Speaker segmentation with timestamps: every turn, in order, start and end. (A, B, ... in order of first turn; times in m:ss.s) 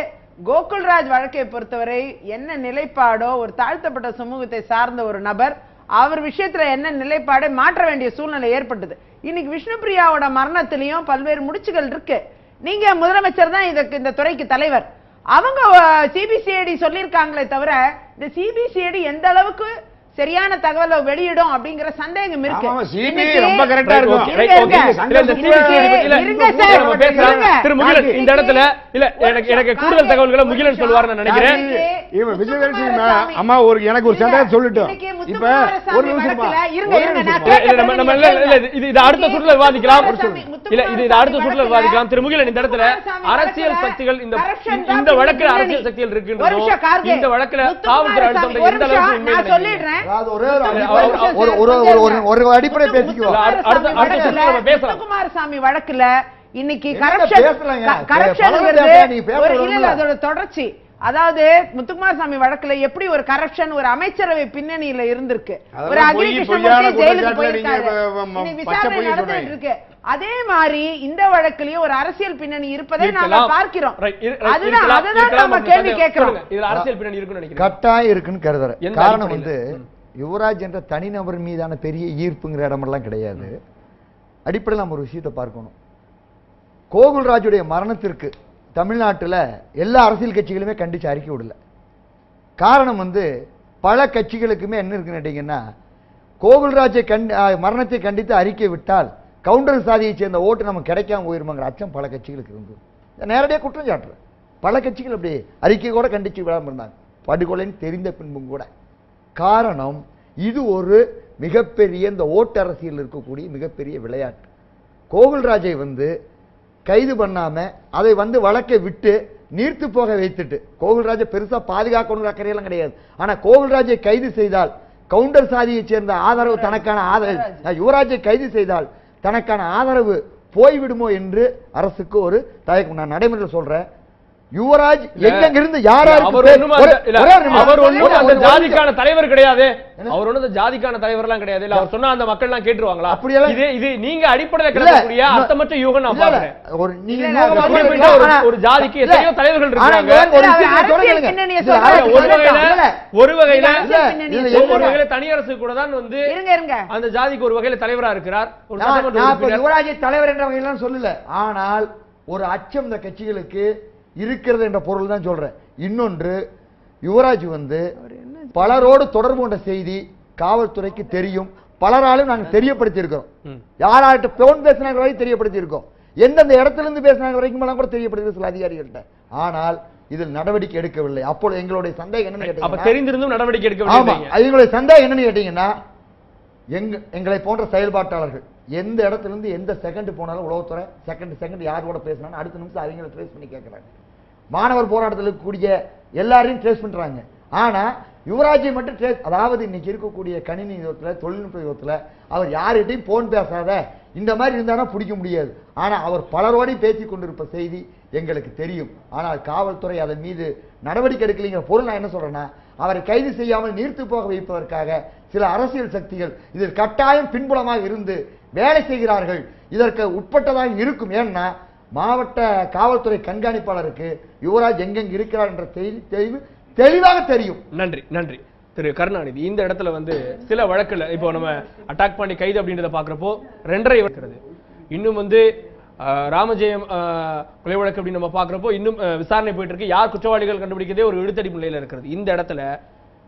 0:00.5-0:33.4 A
0:22.5-0:28.2 B
0:23.8-0:31.6 C
0:31.2-0:37.6 B
0:34.0-0:45.8 A
0:37.4-0:40.1 C
0:40.0-0:40.4 B
0:40.7-0:49.8 C
0:46.4-1:16.4 A
0:50.0-0:54.4 D
0:50.7-0:51.3 C
0:53.2-0:55.0 C
0:56.9-1:00.0 D
1:05.7-1:09.5 B
1:13.0-1:17.8 C
1:17.6-1:19.6 D
1:18.8-1:19.9 C
1:20.2-1:23.6 D
1:24.5-1:25.7 D
1:26.9-1:31.6 D
1:32.6-1:33.3 D
1:33.8-1:35.6 D
1:36.4-1:48.7 D
1:49.4-1:54.4 D
1:55.1-1:56.1 D
1:56.9-2:13.8 D
2:06.4-2:07.6 A
2:14.6-2:18.8 D
2:15.2-2:26.5 C
2:17.5-2:18.4 A
2:23.1-2:23.6 D
2:24.7-2:25.5 D
2:26.1-2:33.0 D
2:27.1-2:28.4 A
2:27.5-2:30.3 C
2:30.2-2:32.8 A
2:31.8-2:33.8 C
2:33.5-2:35.0 A
2:33.8-2:35.0 D
2:34.5-2:36.3 C
2:36.3-2:36.9 A
2:36.9-2:39.6 C
2:38.8-2:46.4 D
2:47.0-2:47.8 D
2:48.0-2:48.9 A
2:48.5-2:53.3 D
2:53.8-3:03.0 D
3:02.4-3:04.3 C
3:03.8-3:05.7 D
3:06.7-3:13.9 D
3:14.5-3:47.6 D
3:47.7-3:54.4 C
3:54.9-3:55.4 C
3:56.0-4:02.7 C